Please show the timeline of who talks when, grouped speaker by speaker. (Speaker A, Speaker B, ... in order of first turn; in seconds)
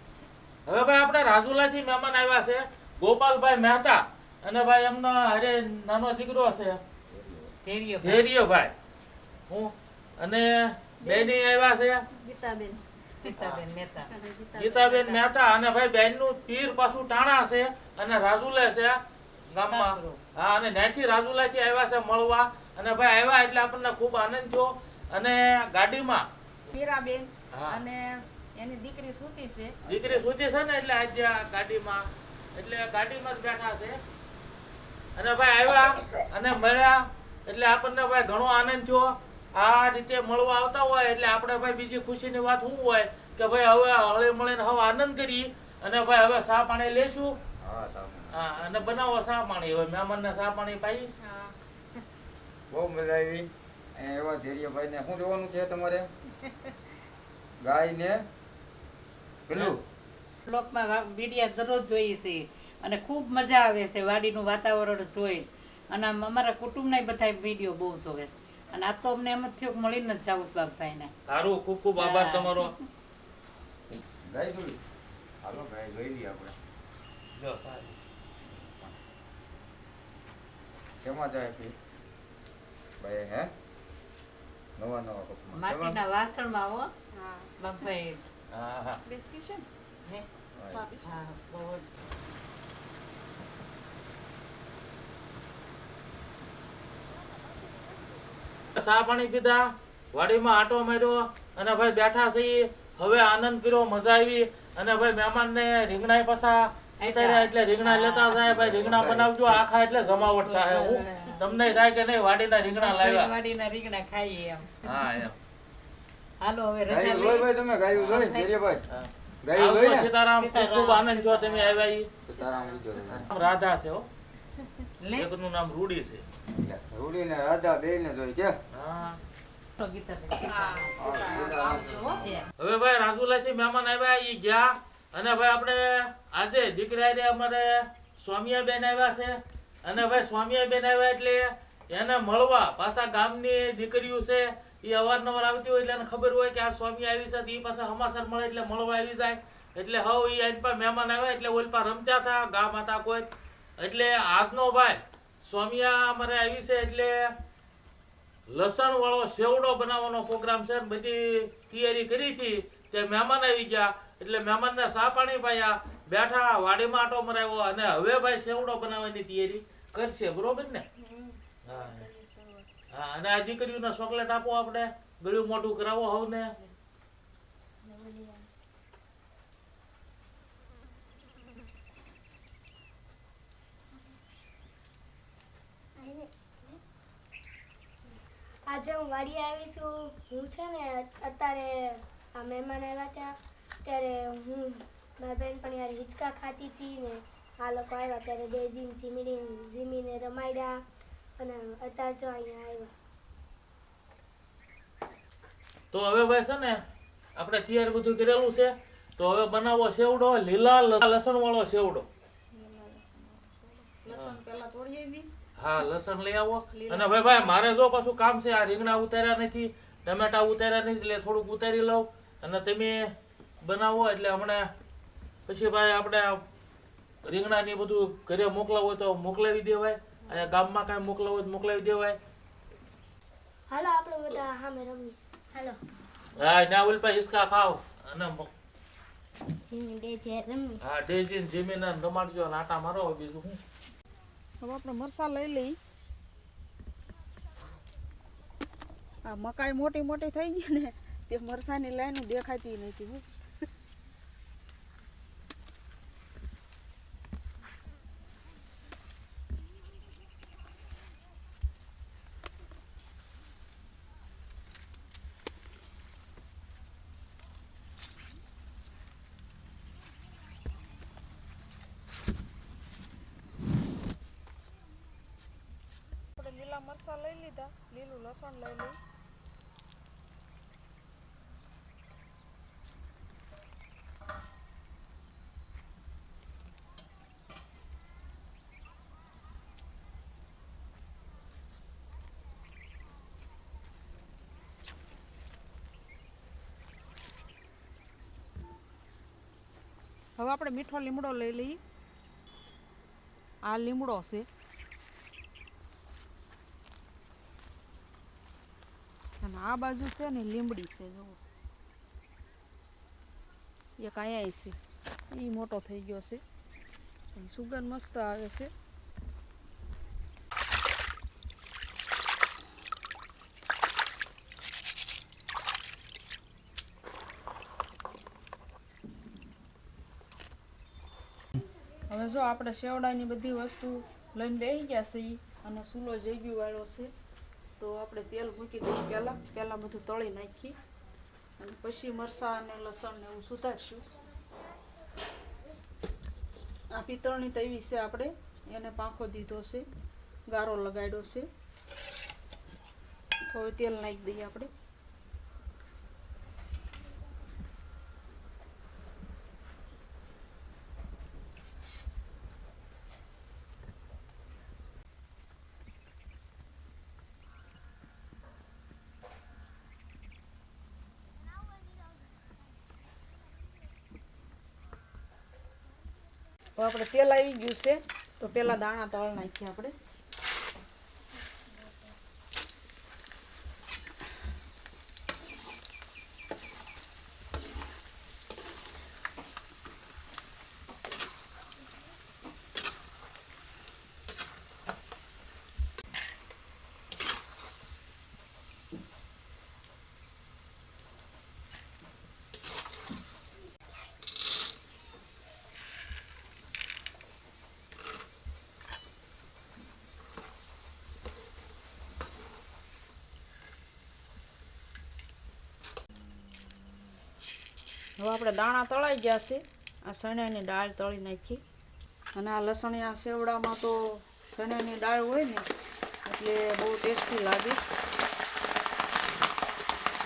Speaker A: 0.7-6.8, 8.0-8.7, 9.5-12.1, 14.6-19.0, 19.5-26.3, 27.5-27.8, 29.9-34.0, 35.2-47.4, 48.3-51.1, 71.3-72.7, 77.4-78.0, 88.5-89.0, 98.8-113.3, 114.8-115.4, 118.9-122.1, 123.1-124.1, 125.1-126.2, 128.7-129.2, 132.6-153.3, 153.8-157.3, 158.5-170.8, 171.7-172.0, 172.9-176.5, 205.9-206.8, 207.4-212.1, 214.1-214.4, 215.6-224.7, 225.5-226.4, 227.2-232.2, 236.4-238.5, 240.8-243.6
Speaker B: 7.1-7.5, 29.9-30.2, 47.6-48.4, 52.7-56.1, 57.6-58.2, 59.5-59.8, 73.9-74.8, 75.4-76.6, 78.5-79.0, 81.0-81.7, 83.0-83.5, 84.8-86.0, 90.6-90.8, 108.4-109.4, 116.9-118.8, 119.4-120.1, 122.3-123.3, 126.6-128.6, 131.0-132.4
Speaker C: 7.7-8.2, 13.2-14.1, 14.9-15.2, 19.7-20.2, 60.5-71.1, 72.0-72.7, 85.5-86.9, 87.6-88.2, 91.0-91.9, 107.0-108.4, 110.2-111.5, 112.8-115.1, 116.4-118.5, 120.4-121.8, 125.0-125.3, 129.8-132.5
Speaker D: 11.0-11.3, 12.2-13.3, 14.2-15.0, 26.7-29.8, 87.1-87.5, 89.0-89.7, 90.7-91.2, 130.4-132.1, 171.0-172.7, 212.5-215.3, 216.7-217.6, 244.6-245.8, 249.3-253.2, 276.4-279.0, 300.4-301.8, 303.6-304.5, 309.4-311.4, 314.0-314.8, 315.3-316.4, 317.4-318.7, 332.1-337.1, 337.8-340.8, 341.6-344.0, 346.9-349.9, 350.5-351.5, 353.5-354.7, 376.8-379.9, 418.2-421.6, 422.3-425.7, 426.2-427.8
Speaker E: 177.8-178.5, 186.0-186.8, 188.7-200.8, 201.4-202.9, 233.7-235.8, 239.7-240.8, 381.7-382.1